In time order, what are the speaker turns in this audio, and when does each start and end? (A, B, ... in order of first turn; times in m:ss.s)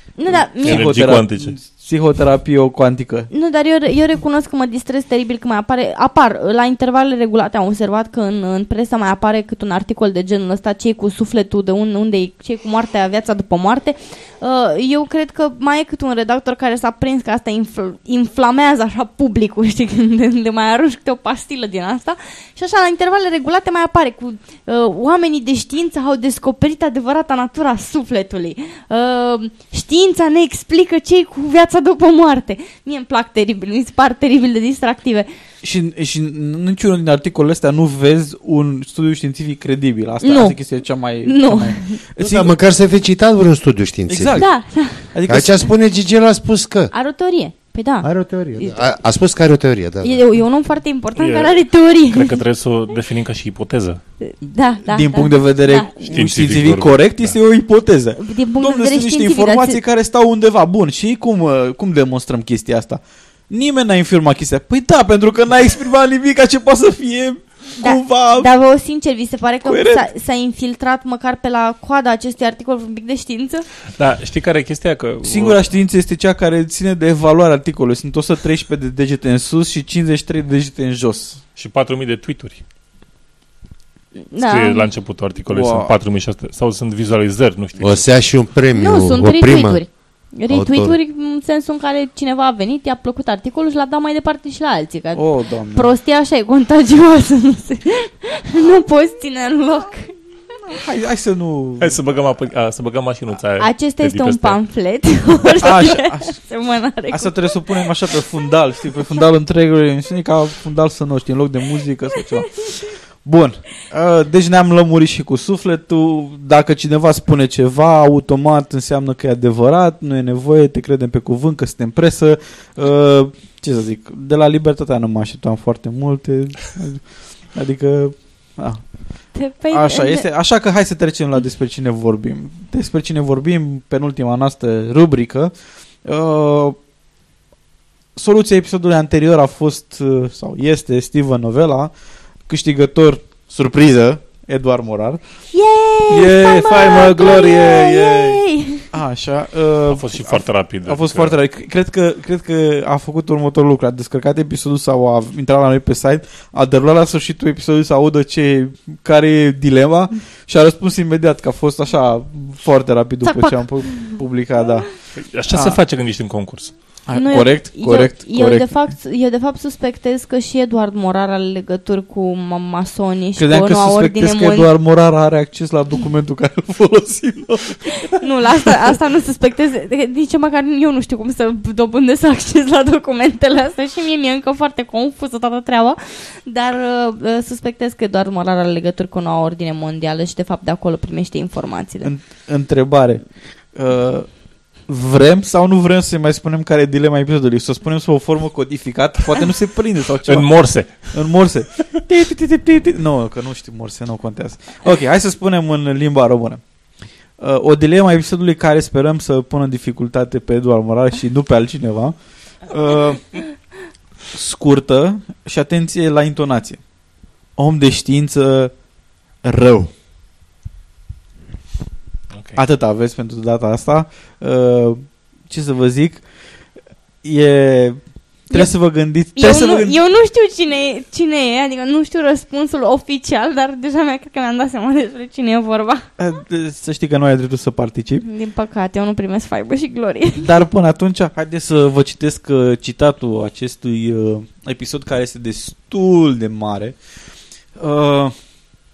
0:00.2-0:00.9 A
0:00.3-0:03.3 B
0:00.6-0:01.6 C
0:03.3-0:35.3 A
0:35.6-0:42.5 B
0:40.2-0:40.6 A
0:41.2-0:42.0 A
0:42.2-0:44.4 D
0:44.1-0:44.5 B
0:44.3-0:45.1 A
0:45.1-0:45.7 B
0:45.2-0:46.9 D
0:46.9-0:48.8 A
0:48.0-0:50.2 D
0:50.0-0:52.4 A
0:51.2-0:51.6 C
0:52.1-0:54.0 C
0:54.2-0:55.9 A
0:54.9-1:08.5 B
0:56.0-0:57.4 C
0:58.2-0:59.8 A
1:07.8-1:13.7 A
1:09.6-1:10.1 B
1:14.0-1:15.6 C
1:15.2-1:21.4 B
1:21.6-1:22.6 C
1:24.2-1:24.9 A
1:24.4-1:28.1 C
1:25.5-1:25.9 B
1:27.8-1:29.8 D
1:28.7-1:40.1 A
1:30.5-1:31.0 D
1:35.1-1:35.9 B
1:40.6-1:42.0 B
1:41.8-1:44.6 C
1:43.6-1:47.8 A
1:45.6-1:46.4 B
1:47.1-1:52.7 B
1:53.2-2:08.8 B
2:09.3-2:10.2 A
2:09.7-2:15.5 B
2:16.0-2:16.8 B
2:18.2-2:21.9 B
2:22.5-2:25.2 B
2:25.5-2:28.8 A
2:26.1-2:28.4 C
2:28.9-2:44.9 B
2:29.9-2:31.4 C
2:43.2-2:44.2 A
2:45.2-2:46.7 C
2:45.5-2:45.8 B
2:47.1-2:48.7 B
2:47.1-2:54.7 A
2:53.4-2:58.1 B
2:58.1-3:12.1 A
3:12.0-3:13.2 B
3:13.7-3:14.3 B
3:14.9-3:26.6 B
3:20.2-3:21.1 C
3:27.4-3:32.2 B
3:32.7-3:33.4 B
3:34.3-3:36.8 B
3:37.6-3:38.7 B
3:39.4-3:39.9 B
3:42.3-3:42.6 C
3:42.6-3:46.2 B
3:47.2-3:50.0 B
3:49.4-3:56.1 A
3:56.2-3:58.2 B
3:58.2-4:00.5 A
4:00.4-4:07.0 B
4:07.8-4:08.3 B